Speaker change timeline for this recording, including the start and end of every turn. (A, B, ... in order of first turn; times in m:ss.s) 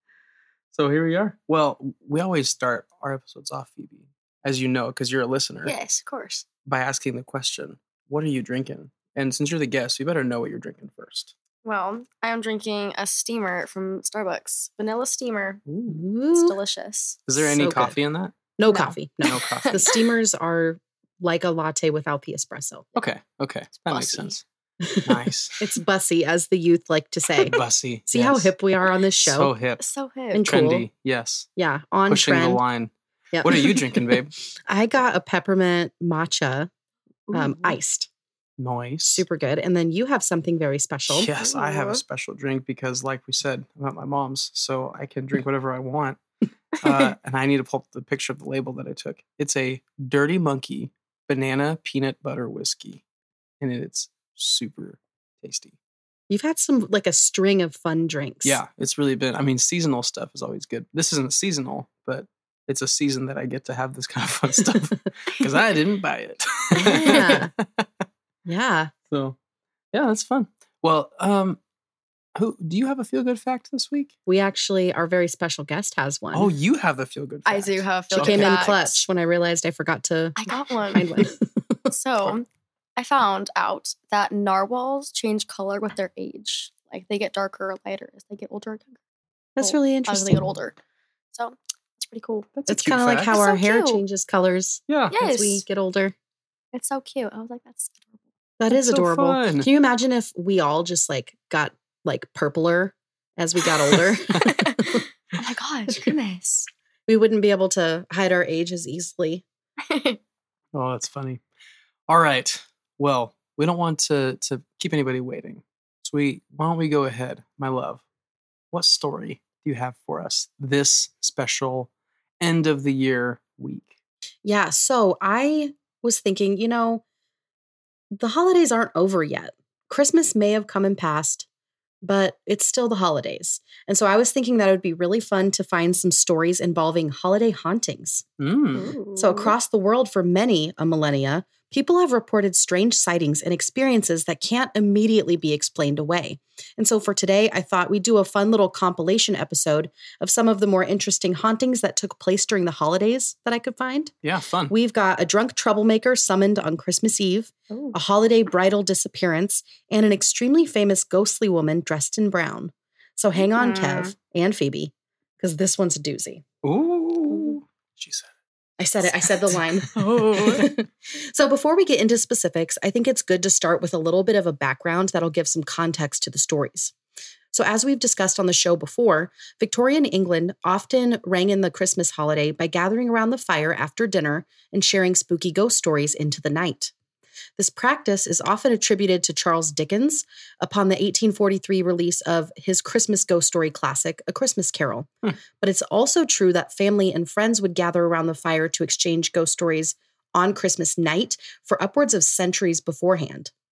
0:00.7-0:05.7 A
0:05.6-0:06.5 B
0:06.6-0:11.3 A
0:11.6-0:15.6 B
0:15.7-0:16.0 A
0:15.9-0:16.6 C
0:16.3-0:17.2 B
0:17.2-0:18.4 A
0:17.4-0:18.0 C
0:18.6-0:22.8 C
0:18.7-0:18.9 B
0:19.2-0:19.9 A
0:19.6-0:20.0 B
0:22.9-0:24.4 A
0:23.8-0:24.4 B
0:24.8-0:27.6 C
0:25.0-0:25.7 A
0:27.4-0:28.5 A
0:28.1-0:29.5 C
0:29.2-0:29.8 A
0:29.8-0:30.5 B
0:30.3-0:30.9 C
0:30.4-0:31.5 A
0:31.6-0:32.6 C
0:32.1-0:34.3 A
0:33.3-0:36.7 C
0:37.3-0:37.8 B
0:37.3-0:38.1 C
0:38.6-0:39.2 A
0:39.1-0:41.3 C
0:41.1-0:46.2 A
0:41.4-0:42.0 B
0:46.8-0:53.0 A
0:53.6-0:55.7 A
0:56.3-0:58.6 C
0:58.4-1:07.9 A
1:06.8-1:07.5 C
1:08.4-1:08.9 C
1:09.1-1:09.4 A
1:09.9-1:11.6 A
1:12.4-1:14.1 A
1:14.2-1:16.5 C
1:16.3-1:18.5 A
1:17.4-1:19.0 B
1:18.2-1:21.9 C
1:20.4-1:21.2 B
1:21.9-1:29.0 B
1:29.6-1:30.5 C
1:29.6-1:30.8 B
1:31.3-1:32.5 B
1:32.6-1:33.3 A
1:32.7-1:36.1 C
1:33.3-1:34.0 B
1:34.9-1:35.1 A
1:35.1-1:35.6 B
1:36.7-1:38.1 B
1:38.6-1:45.0 C
1:38.7-1:39.7 A
1:44.3-1:46.7 B
1:47.1-1:49.4 C
1:49.8-1:50.2 B
1:50.7-1:51.4 A
1:52.1-1:58.0 A
1:58.7-2:03.9 A
2:04.4-2:07.0 C
2:08.1-2:11.4 C
2:12.0-2:18.2 C
2:18.4-2:18.9 A
2:18.7-2:19.5 B
2:19.2-2:34.1 C
2:34.2-2:34.7 A
2:34.7-2:46.4 C
2:43.4-2:44.1 B
2:46.6-2:48.3 A
2:47.3-2:47.6 B
2:48.8-2:56.9 C
2:49.0-2:50.7 A
2:57.5-3:06.9 C
3:07.6-3:15.1 C
3:15.6-3:23.5 C